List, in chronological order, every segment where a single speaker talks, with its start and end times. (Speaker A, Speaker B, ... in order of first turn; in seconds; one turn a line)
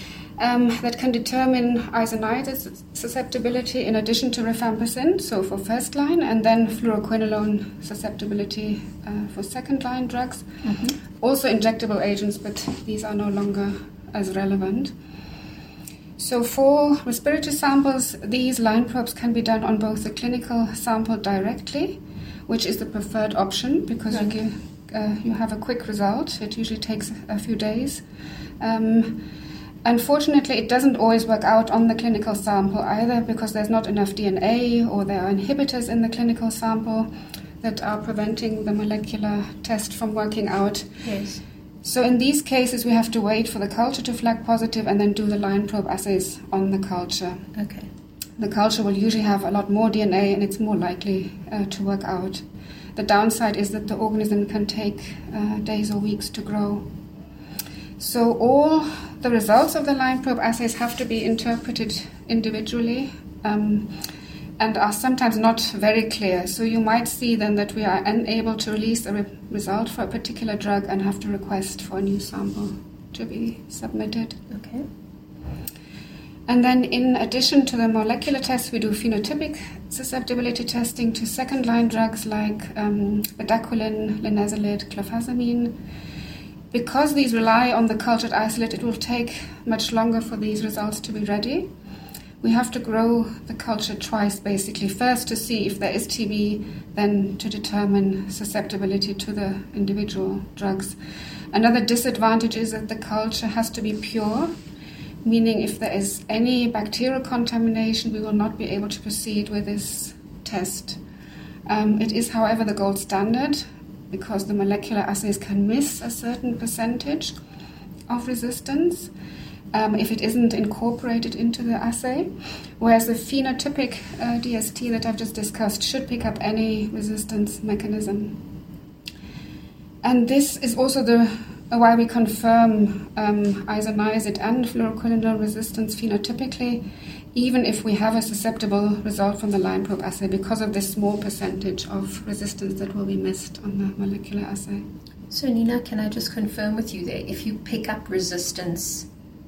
Speaker A: 0.4-10.6
Speaker B: 10.6-10.9
Speaker A: 11.2-14.9
Speaker A: 16.2-28.0
Speaker B: 24.1-24.4
Speaker A: 28.6-29.2
Speaker A: 29.8-41.0
Speaker B: 41.0-41.4
Speaker A: 41.8-47.5
Speaker B: 47.5-47.9
Speaker A: 48.4-52.4
Speaker A: 53.0-56.9
Speaker A: 58.0-64.0
Speaker A: 64.6-74.4
Speaker B: 74.5-74.8
Speaker A: 76.5-85.8
Speaker A: 86.7-91.7
Speaker A: 92.4-101.0
Speaker A: 101.5-104.5
Speaker A: 105.2-111.0
Speaker A: 111.7-117.3
Speaker A: 118.1-119.1
Speaker A: 119.7-128.4
Speaker A: 130.0-144.9
Speaker B: 145.3-149.1